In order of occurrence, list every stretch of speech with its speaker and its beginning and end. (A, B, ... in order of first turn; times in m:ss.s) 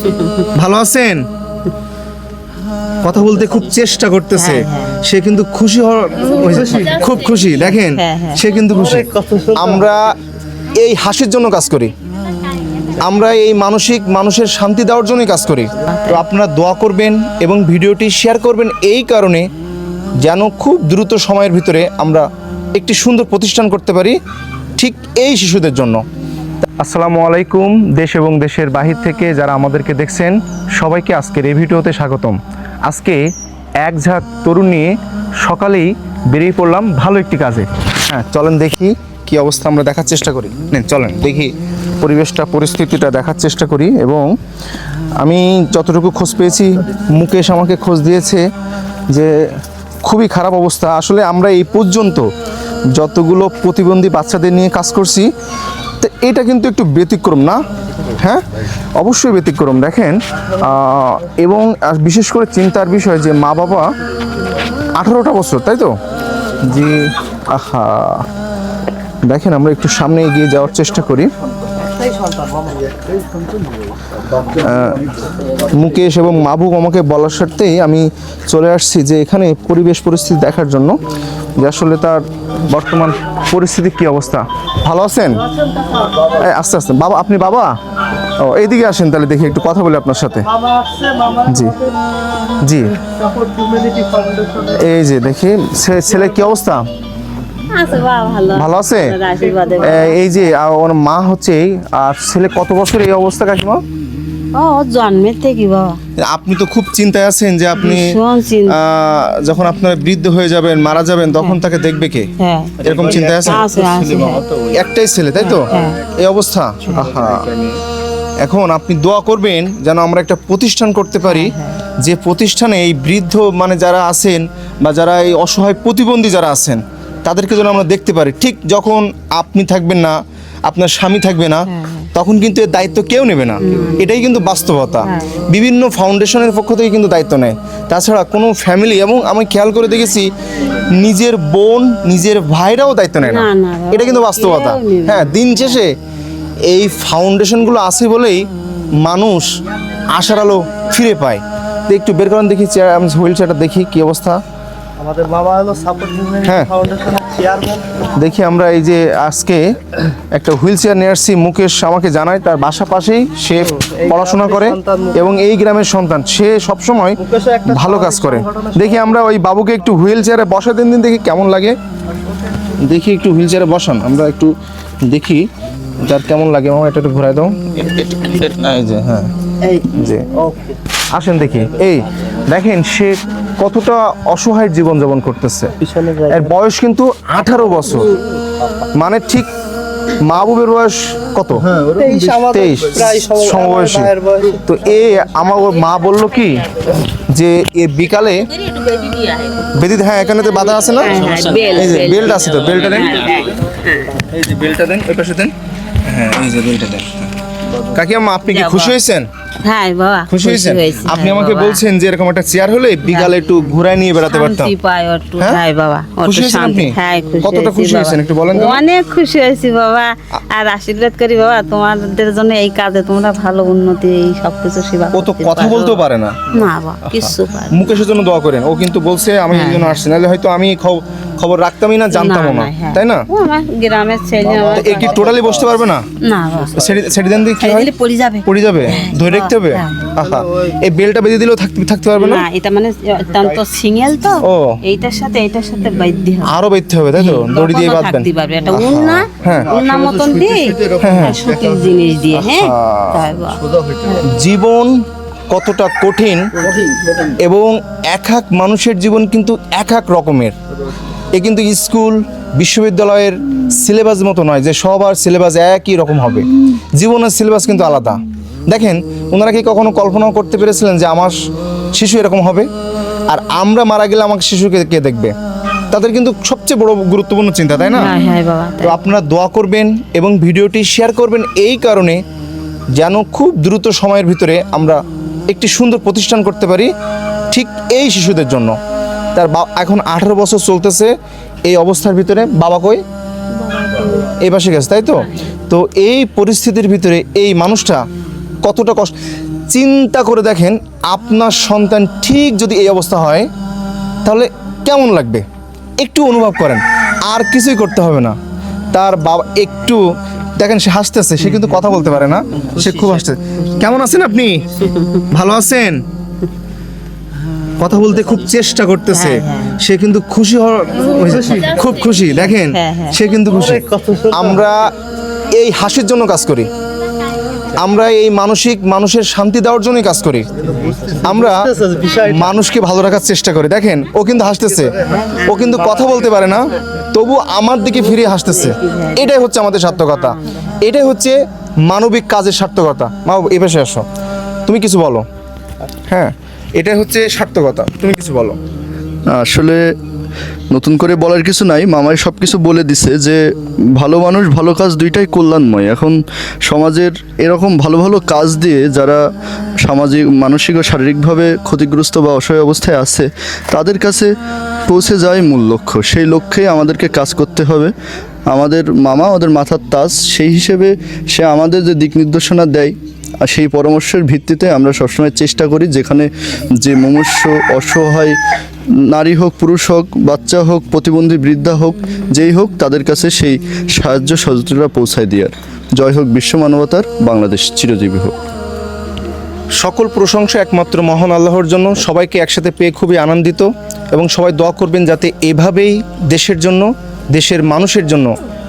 0:00.2-0:00.4 A
0:00.5-0:01.2 B
0:03.0-0:10.1 B
0:04.3-0:05.0 A
0:07.6-0:08.4 A
0:08.7-0:09.9 C
0:10.8-0:11.9 B
0:13.0-0:19.4 B
0:15.8-0:16.2 A
0:20.2-0:24.2 B
0:24.8-0:26.0 B
0:26.8-0:33.2 B
0:33.8-0:44.3 B
0:45.2-0:48.5 B
0:49.1-0:49.5 B
0:50.0-0:52.3 B
0:52.9-0:55.3 B
0:56.0-0:57.6 B
0:58.2-0:58.4 B
0:59.0-1:03.9 B
1:05.0-1:05.9 B
1:06.7-1:08.3 B
1:09.3-1:11.3 B
1:12.0-1:12.6 C
1:14.4-1:15.1 B
1:15.7-1:21.0 B
1:21.6-1:25.4 B
1:26.4-1:27.8 B
1:28.4-1:30.4 B
1:30.6-1:31.9 C
1:31.4-1:31.8 B
1:32.6-1:33.0 B
1:33.0-1:34.8 C
1:34.8-1:36.8 B
1:37.7-1:40.2 A
1:38.5-1:39.2 B
1:39.8-1:43.8 B
1:44.5-1:46.0 A
1:46.2-1:48.2 B
1:47.8-1:48.8 A
1:48.7-1:52.3 B
1:52.4-1:54.4 A
1:52.8-1:53.7 B
1:54.7-1:57.5 B
1:55.4-1:56.0 A
1:56.8-1:57.2 A
1:58.4-2:25.9 B
2:01.2-2:01.8 A
2:11.7-2:12.1 A
2:13.6-2:14.1 A
2:15.0-2:15.4 A
2:23.2-2:25.8 A
2:26.7-2:28.5 B
2:29.0-2:29.5 B
2:30.1-2:34.4 B
2:35.0-2:38.0 C
2:36.4-2:36.7 B
2:38.2-2:39.6 B
2:40.3-2:51.8 B
2:43.7-2:45.2 C
2:47.2-2:49.2 C
2:52.8-2:54.5 B
2:55.1-2:55.5 B
2:56.0-2:59.3 B
2:59.7-3:00.8 C
2:59.9-3:00.3 B
3:01.1-3:05.7 B
3:05.8-3:06.5 C
3:06.3-3:08.1 B
3:07.8-3:08.2 C
3:09.0-3:09.5 B
3:10.2-3:11.7 B
3:11.7-3:14.6 C
3:12.2-3:14.1 B
3:14.6-3:16.6 B
3:17.2-3:18.5 B
3:18.2-3:19.7 A
3:19.8-3:23.4 B
3:20.6-3:24.2 A
3:24.2-3:25.5 B
3:26.1-3:29.3 B
3:28.5-3:28.9 A
3:29.6-3:31.8 A
3:30.3-3:34.7 B
3:33.0-3:47.8 A
3:36.2-3:38.8 B
3:45.1-3:46.5 B
3:47.2-3:53.2 B
3:49.5-3:50.0 A
3:52.1-3:55.5 A
3:54.7-3:56.0 B
3:56.2-3:57.0 A
3:56.7-3:57.9 B
3:57.6-4:00.1 A
3:58.4-4:02.4 B
4:00.2-4:00.8 C
4:02.1-4:06.5 A
4:04.4-4:04.8 B
4:06.5-4:09.8 B
4:07.2-4:14.2 A
4:11.0-4:11.4 B
4:12.3-4:13.2 B
4:14.2-4:16.5 B
4:17.4-4:20.6 B
4:21.4-4:31.4 B
4:31.9-4:32.7 B
4:33.3-4:35.3 B
4:35.9-4:38.1 B
4:37.9-4:39.0 A
4:38.8-4:42.2 B
4:42.9-4:45.0 B
4:45.5-4:46.9 B
4:47.5-4:48.8 B
4:49.4-4:51.1 B
4:51.7-4:53.0 B
4:53.6-4:54.3 A
4:54.4-4:58.0 B
4:58.6-4:59.1 B
4:59.7-5:03.5 B
5:04.2-5:05.4 B
5:06.0-5:08.4 B
5:08.9-5:10.0 B
5:10.6-5:14.6 B
5:14.9-5:15.2 A
5:15.3-5:16.0 B
5:17.8-5:24.9 B
5:19.1-5:19.8 A
5:21.4-5:21.7 C
5:21.5-5:23.2 A
5:23.5-5:24.7 C
5:25.5-5:26.7 B
5:27.8-5:30.5 B
5:30.7-5:32.5 C
5:31.2-5:31.7 B
5:32.2-5:44.0 B
5:35.1-5:35.8 A
5:38.1-5:40.7 A
5:44.7-5:45.2 B
5:46.1-5:48.6 B
5:49.3-5:49.9 D
5:50.7-5:53.4 D
5:53.9-5:59.2 D
5:59.8-6:04.3 D
6:04.9-6:07.9 D
6:08.5-6:18.4 D
6:19.0-6:28.4 D
6:29.8-6:38.3 B